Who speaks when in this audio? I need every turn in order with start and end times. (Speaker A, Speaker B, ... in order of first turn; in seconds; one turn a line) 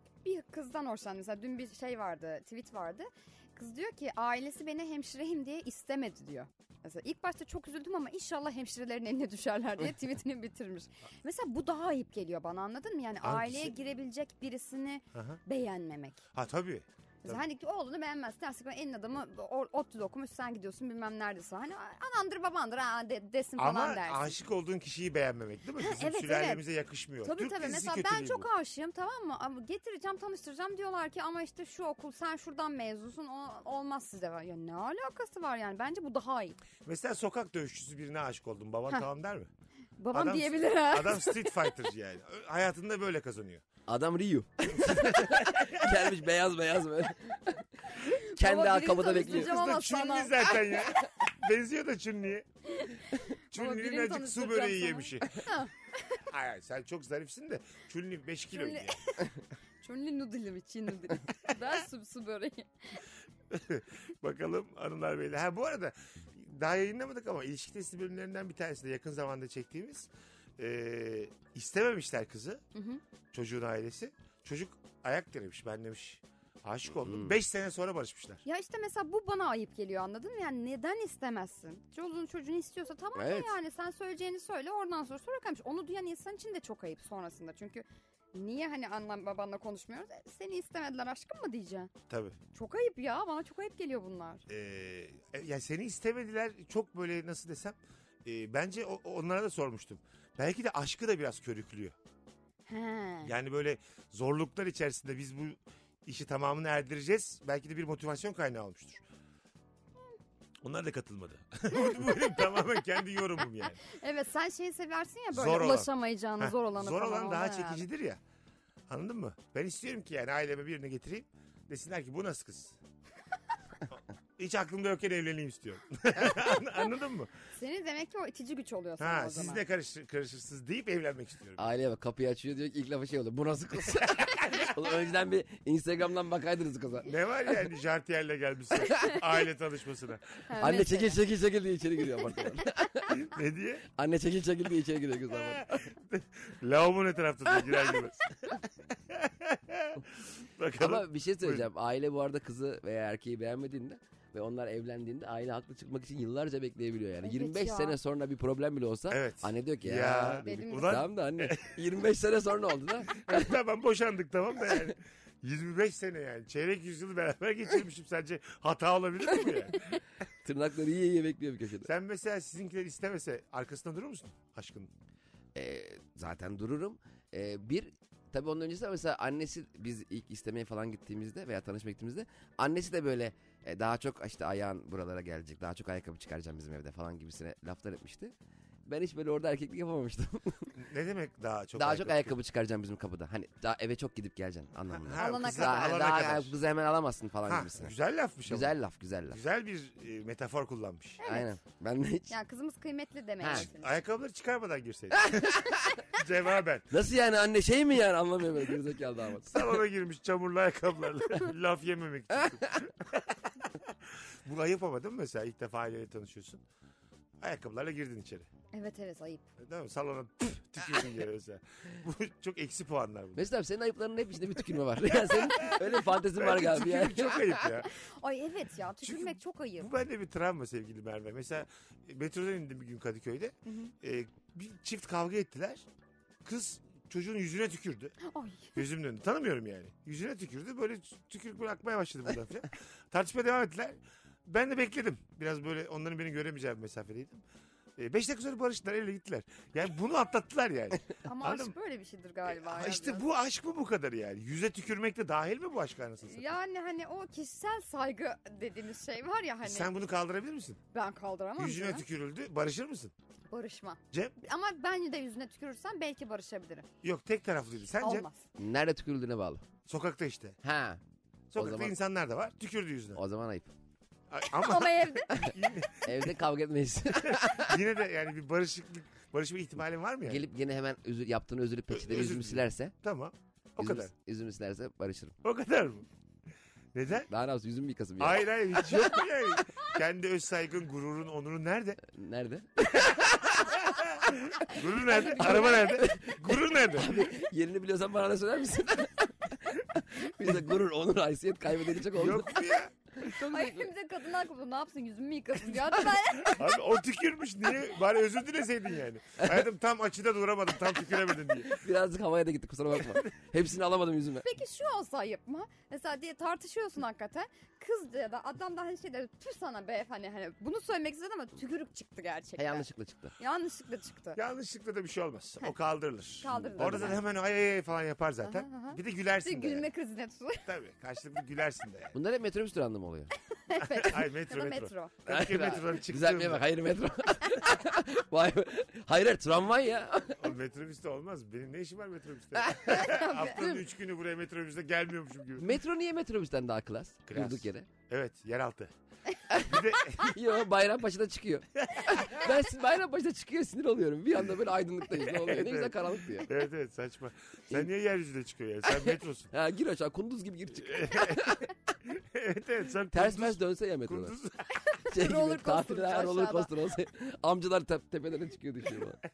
Speaker A: 0.2-16.2
Speaker B: 13.2-13.7
Speaker B: 15.1-15.4
Speaker B: 16.3-17.4
Speaker A: 17.2-24.4
Speaker B: 23.6-28.5
Speaker A: 25.8-26.6
Speaker A: 27.2-36.6
Speaker B: 36.9-39.5
Speaker A: 40.0-41.7
Speaker B: 40.1-43.6
Speaker C: 43.9-49.5
Speaker B: 44.8-45.9
Speaker A: 48.0-50.5
Speaker B: 49.1-52.5
Speaker A: 52.7-56.2
Speaker B: 53.5-55.4
Speaker B: 56.3-59.0
Speaker A: 58.5-59.3
Speaker A: 59.8-63.0
Speaker B: 63.5-72.6
Speaker A: 72.7-73.0
Speaker B: 73.3-78.4
Speaker C: 77.0-77.3
Speaker A: 78.5-91.9
Speaker C: 83.2-83.5
Speaker B: 92.1-92.4
Speaker A: 92.5-94.5
Speaker B: 94.5-102.0
Speaker A: 102.7-103.3
Speaker B: 103.2-109.0
Speaker B: 110.6-113.8
Speaker A: 113.8-117.9
Speaker B: 115.3-118.2
Speaker B: 118.9-122.8
Speaker B: 124.4-127.3
Speaker A: 127.5-129.6
Speaker B: 129.0-131.7
Speaker C: 131.6-137.1
Speaker B: 134.0-134.7
Speaker B: 137.1-140.4
Speaker A: 140.5-141.2
Speaker C: 140.6-143.2
Speaker B: 143.1-143.8
Speaker C: 143.9-145.8
Speaker B: 145.4-151.7
Speaker C: 150.8-163.6
Speaker A: 157.2-158.0
Speaker B: 159.1-161.8
Speaker A: 160.4-161.0
Speaker B: 163.2-170.0
Speaker C: 170.4-171.9
Speaker B: 171.8-174.9
Speaker C: 175.6-188.3
Speaker C: 188.9-190.7
Speaker B: 190.8-192.3
Speaker C: 191.8-197.9
Speaker B: 195.0-196.6
Speaker A: 195.2-196.1
Speaker B: 197.5-198.8
Speaker C: 198.5-199.4
Speaker B: 199.3-201.2
Speaker A: 201.2-201.5
Speaker C: 201.2-202.3
Speaker A: 202.3-204.0
Speaker C: 203.4-203.7
Speaker B: 203.5-206.9
Speaker C: 205.2-205.9
Speaker C: 206.9-209.7
Speaker B: 209.5-216.6
Speaker B: 217.4-218.5
Speaker A: 218.7-219.4
Speaker B: 219.6-223.5
Speaker C: 223.4-227.7
Speaker B: 225.1-227.9
Speaker A: 227.9-229.9
Speaker B: 229.0-235.9
Speaker A: 233.7-233.9
Speaker B: 236.4-238.2
Speaker A: 238.2-238.8
Speaker B: 238.8-247.4
Speaker B: 248.0-251.8
Speaker A: 251.2-253.2
Speaker B: 252.5-256.5
Speaker A: 256.3-259.9
Speaker B: 259.6-260.8
Speaker A: 260.9-262.1
Speaker B: 261.6-263.1
Speaker A: 263.5-266.9
Speaker B: 267.0-268.3
Speaker A: 268.0-268.5
Speaker C: 268.6-269.6
Speaker B: 269.9-270.6
Speaker C: 270.6-271.0
Speaker B: 271.5-273.2
Speaker C: 271.6-271.9
Speaker C: 273.1-273.7
Speaker B: 274.3-276.3
Speaker A: 274.5-275.4
Speaker C: 275.4-277.8
Speaker B: 277.2-280.4
Speaker C: 280.3-282.9
Speaker B: 281.9-284.1
Speaker C: 283.8-285.4
Speaker B: 285.4-286.1
Speaker B: 286.9-287.3
Speaker C: 287.3-289.1
Speaker B: 288.2-292.0
Speaker C: 292.1-293.8
Speaker B: 293.0-297.3
Speaker A: 294.7-296.0
Speaker C: 295.2-302.6
Speaker B: 302.1-303.1
Speaker C: 303.2-303.9
Speaker A: 303.2-306.7
Speaker B: 306.5-311.8
Speaker C: 309.4-309.6
Speaker C: 311.7-314.5
Speaker A: 314.4-322.9
Speaker C: 322.6-323.4
Speaker A: 323.4-324.4
Speaker B: 324.4-329.9
Speaker A: 326.4-327.2
Speaker C: 326.5-327.2
Speaker A: 328.4-330.7
Speaker B: 330.7-332.2
Speaker C: 332.1-333.3
Speaker A: 333.7-335.2
Speaker B: 333.8-336.6
Speaker C: 335.3-340.5
Speaker B: 340.4-345.7
Speaker A: 342.8-343.8
Speaker C: 345.6-347.9
Speaker B: 347.3-348.9
Speaker C: 349.5-356.5
Speaker B: 349.6-350.3
Speaker B: 355.3-359.5
Speaker C: 358.9-361.7
Speaker B: 360.8-364.7
Speaker C: 363.1-364.4
Speaker A: 364.8-366.7
Speaker C: 365.1-369.2